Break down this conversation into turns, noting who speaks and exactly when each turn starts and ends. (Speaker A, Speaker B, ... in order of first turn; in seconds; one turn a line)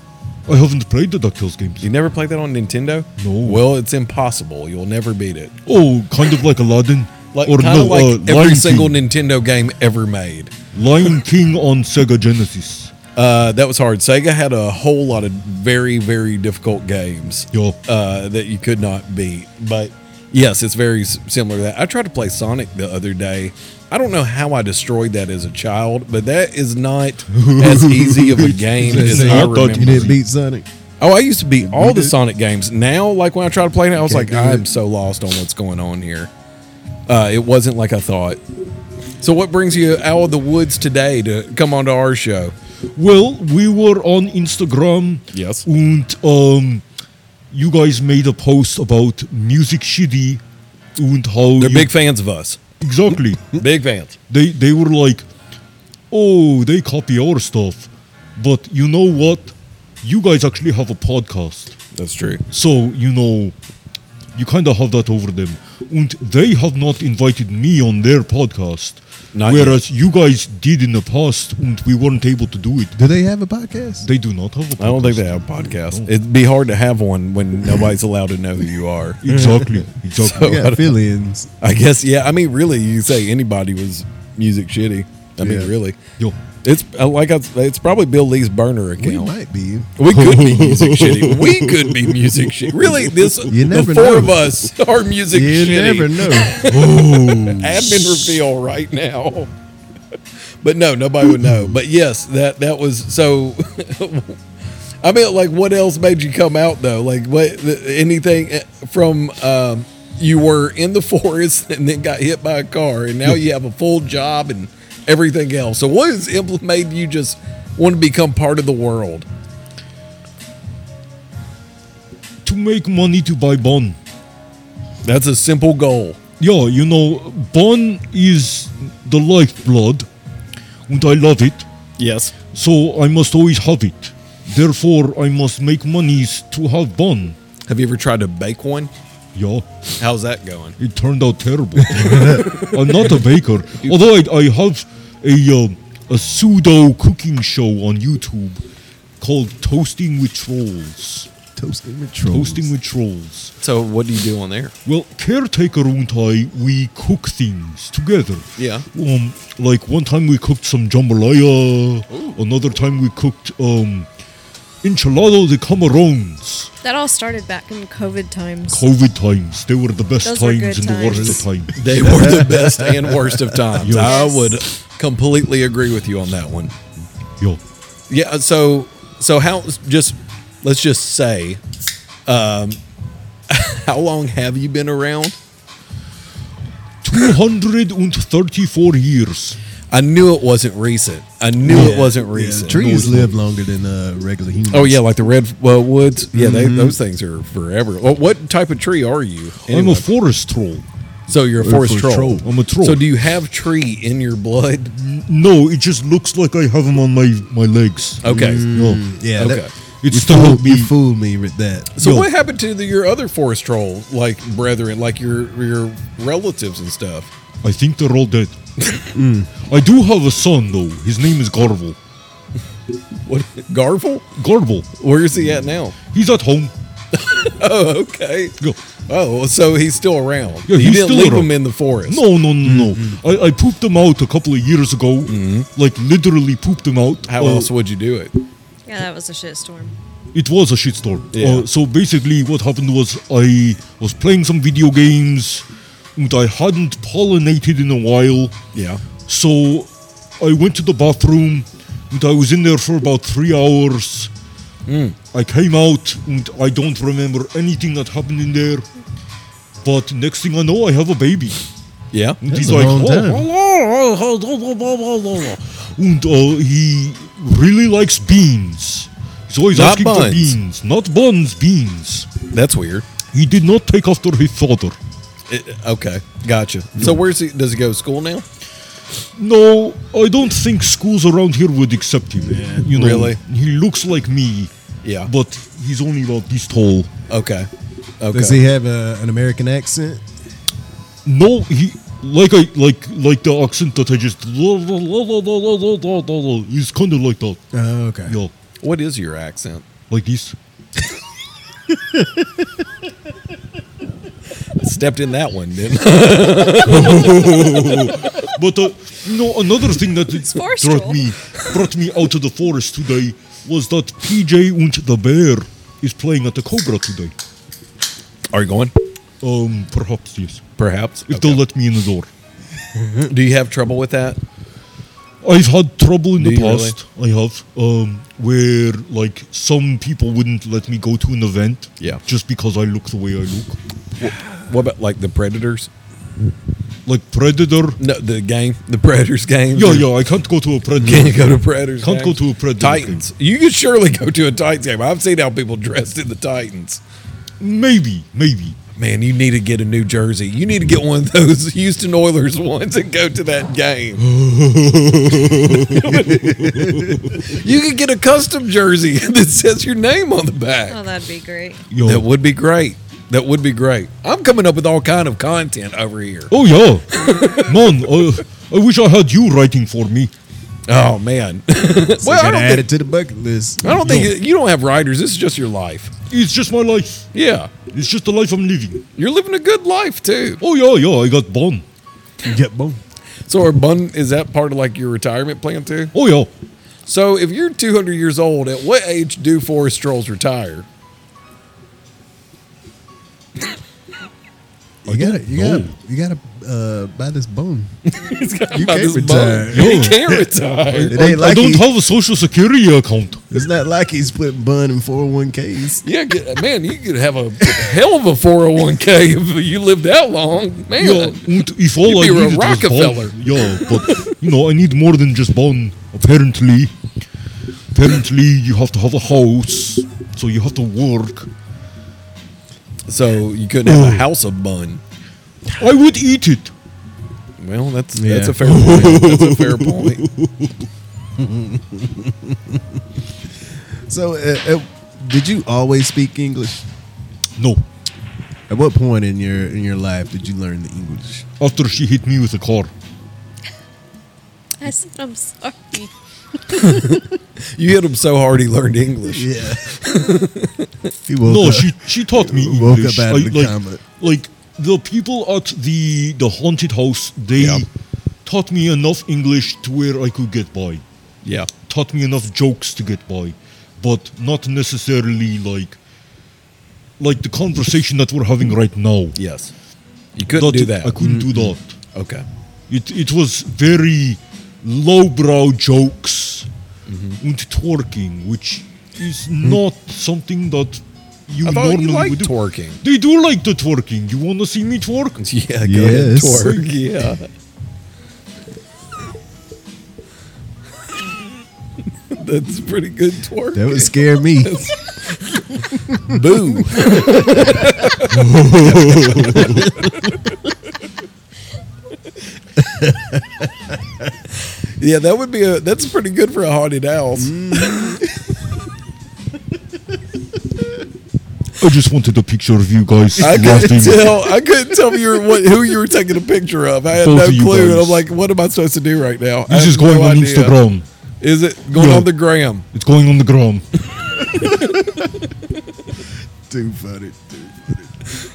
Speaker A: 0.5-1.9
Speaker B: 1.8-5.5
Speaker A: 3.2-3.6
Speaker A: 5.7-9.0
Speaker B: 7.3-10.5
Speaker A: 10.7-12.9
Speaker B: 13.2-30.2
Speaker A: 17.5-17.8
Speaker A: 27.3-30.2
Speaker C: 28.8-30.7
Speaker B: 31.0-36.3
Speaker C: 31.6-32.1
Speaker C: 34.0-34.7
Speaker B: 37.1-38.4
Speaker B: 39.2-42.5
Speaker A: 43.0-46.8
Speaker B: 45.3-45.7
Speaker A: 47.5-50.4
Speaker A: 51.0-51.9
Speaker B: 51.6-52.6
Speaker A: 52.8-53.6
Speaker B: 53.5-54.2
Speaker A: 54.3-55.2
Speaker A: 56.1-61.8
Speaker B: 61.9-62.4
Speaker A: 62.5-63.5
Speaker A: 64.3-73.0
Speaker B: 69.3-69.8
Speaker C: 73.0-74.1
Speaker A: 74.0-76.1
Speaker B: 74.8-79.2
Speaker A: 79.2-80.6
Speaker C: 79.3-79.8
Speaker B: 80.2-80.9
Speaker C: 80.3-81.5
Speaker B: 81.6-86.0
Speaker C: 85.4-85.7
Speaker B: 86.6-89.3
Speaker C: 89.0-89.9
Speaker B: 90.0-99.5
Speaker A: 90.1-93.3
Speaker C: 93.5-94.5
Speaker C: 95.3-96.7
Speaker A: 96.6-98.2
Speaker B: 100.6-104.4
Speaker B: 105.0-119.3
Speaker A: 122.4-124.0
Speaker B: 125.0-126.2
Speaker A: 126.4-130.1
Speaker A: 130.9-131.7
Speaker B: 132.0-132.3
Speaker A: 132.5-137.4
Speaker B: 137.7-138.9
Speaker A: 139.3-139.7
Speaker B: 140.0-140.8
Speaker A: 140.8-148.6
Speaker C: 141.9-142.5
Speaker B: 142.3-143.1
Speaker A: 149.2-151.3
Speaker C: 151.6-152.7
Speaker A: 152.3-153.6
Speaker B: 153.6-154.7
Speaker A: 154.8-164.1
Speaker B: 158.6-158.9
Speaker B: 162.1-162.4
Speaker A: 164.8-166.7
Speaker D: 166.8-168.8
Speaker A: 168.7-171.8
Speaker D: 170.2-171.4
Speaker C: 171.4-173.4
Speaker B: 171.8-176.8
Speaker A: 173.8-174.2
Speaker D: 173.8-174.6
Speaker B: 178.1-181.6
Speaker B: 182.3-182.8
Speaker B: 183.5-185.4
Speaker A: 187.0-189.6
Speaker B: 189.9-192.8
Speaker C: 191.7-195.0
Speaker A: 191.7-192.1
Speaker A: 192.7-193.3
Speaker B: 194.7-200.1
Speaker C: 196.3-197.0
Speaker A: 199.7-200.8
Speaker B: 201.3-204.9
Speaker C: 201.6-202.5
Speaker A: 202.4-203.1
Speaker A: 205.0-209.0
Speaker B: 208.2-208.7
Speaker C: 208.2-211.9
Speaker B: 209.4-209.7
Speaker A: 210.0-210.9
Speaker B: 211.9-217.3
Speaker A: 212.0-212.3
Speaker A: 217.6-218.6
Speaker C: 219.1-219.5
Speaker A: 219.6-222.0
Speaker B: 223.3-224.2
Speaker A: 224.3-224.9
Speaker B: 225.0-226.0
Speaker A: 226.1-226.7
Speaker B: 227.1-232.2
Speaker A: 230.7-231.5
Speaker A: 232.1-237.7
Speaker C: 232.7-233.2
Speaker B: 235.3-235.7
Speaker B: 237.3-238.4
Speaker D: 238.9-239.9
Speaker A: 240.3-245.7
Speaker B: 241.3-241.7
Speaker A: 246.2-248.6
Speaker B: 248.7-249.0
Speaker A: 249.3-254.3
Speaker B: 254.9-255.2
Speaker A: 255.3-258.9
Speaker A: 259.8-261.6
Speaker B: 262.1-262.4
Speaker A: 262.4-272.3
Speaker C: 262.5-263.5
Speaker B: 269.7-270.6
Speaker B: 272.5-273.1
Speaker A: 273.3-275.0
Speaker B: 275.5-278.4
Speaker A: 279.4-284.7
Speaker C: 282.4-282.9
Speaker B: 282.9-283.4
Speaker B: 285.0-285.3
Speaker A: 285.3-287.1
Speaker B: 287.3-287.7
Speaker B: 288.2-288.6
Speaker C: 288.3-290.2
Speaker A: 291.2-297.6
Speaker C: 297.7-298.4
Speaker A: 298.3-298.5
Speaker B: 298.8-299.9
Speaker A: 300.1-300.6
Speaker C: 302.1-302.6
Speaker B: 304.7-308.2
Speaker A: 306.9-317.3
Speaker D: 310.4-311.3
Speaker B: 318.5-318.9
Speaker A: 319.4-320.6
Speaker B: 320.8-321.6
Speaker A: 321.3-322.3
Speaker B: 323.1-324.4
Speaker A: 325.4-333.8
Speaker B: 326.4-327.0
Speaker B: 334.2-335.9
Speaker A: 337.1-338.0
Speaker B: 338.0-340.1
Speaker A: 339.7-343.2
Speaker B: 341.0-347.0
Speaker A: 347.6-348.8
Speaker B: 348.9-354.2
Speaker A: 354.2-357.4
Speaker B: 355.8-361.0
Speaker D: 360.9-361.8
Speaker A: 361.9-362.3
Speaker B: 362.0-366.5
Speaker A: 366.5-370.3
Speaker B: 367.1-368.0
Speaker B: 370.9-372.9
Speaker C: 372.2-374.2
Speaker B: 373.8-376.1
Speaker A: 373.9-374.3
Speaker A: 376.3-377.3
Speaker B: 377.3-377.7
Speaker A: 377.9-379.0
Speaker B: 379.1-380.6
Speaker A: 380.6-381.9
Speaker C: 382.4-383.0
Speaker B: 383.5-386.1
Speaker A: 386.1-386.5
Speaker B: 387.1-390.9
Speaker C: 395.1-397.9
Speaker A: 395.1-395.9
Speaker B: 398.1-401.2
Speaker C: 398.7-400.4
Speaker A: 399.6-400.3
Speaker A: 400.9-403.4
Speaker C: 401.1-401.9
Speaker C: 403.5-406.0
Speaker B: 406.0-411.4
Speaker A: 411.0-416.9
Speaker B: 412.0-413.4
Speaker A: 417.9-421.5
Speaker B: 423.1-425.0
Speaker A: 423.9-424.3
Speaker A: 425.7-426.7
Speaker B: 427.6-430.3
Speaker C: 428.1-429.0
Speaker A: 428.6-430.6
Speaker C: 431.4-433.0
Speaker C: 434.1-436.8
Speaker A: 437.6-437.9
Speaker C: 438.7-441.5
Speaker A: 441.6-442.9
Speaker D: 444.8-446.1
Speaker B: 446.7-451.1
Speaker C: 449.3-450.0
Speaker C: 451.3-454.0
Speaker A: 451.4-457.9
Speaker B: 457.6-457.8
Speaker A: 458.5-461.0
Speaker B: 461.4-461.7
Speaker A: 461.9-466.0
Speaker A: 467.2-469.4
Speaker B: 469.4-469.7
Speaker B: 470.4-471.2
Speaker A: 470.5-472.0
Speaker C: 471.2-471.8
Speaker B: 472.1-472.5
Speaker A: 472.9-476.7
Speaker B: 477.1-477.4
Speaker A: 477.4-485.4
Speaker B: 481.6-483.0
Speaker B: 485.4-487.5
Speaker C: 485.8-486.8
Speaker B: 492.3-500.4
Speaker C: 493.7-494.8
Speaker A: 498.3-499.8
Speaker C: 499.1-500.1
Speaker C: 502.8-503.7
Speaker B: 505.0-508.2
Speaker C: 507.4-508.3
Speaker A: 511.8-514.4
Speaker B: 513.4-520.8
Speaker A: 517.1-518.2
Speaker A: 519.7-521.1
Speaker B: 521.4-522.9
Speaker A: 521.9-522.4
Speaker A: 522.9-523.9
Speaker C: 524.6-525.3
Speaker C: 526.7-528.1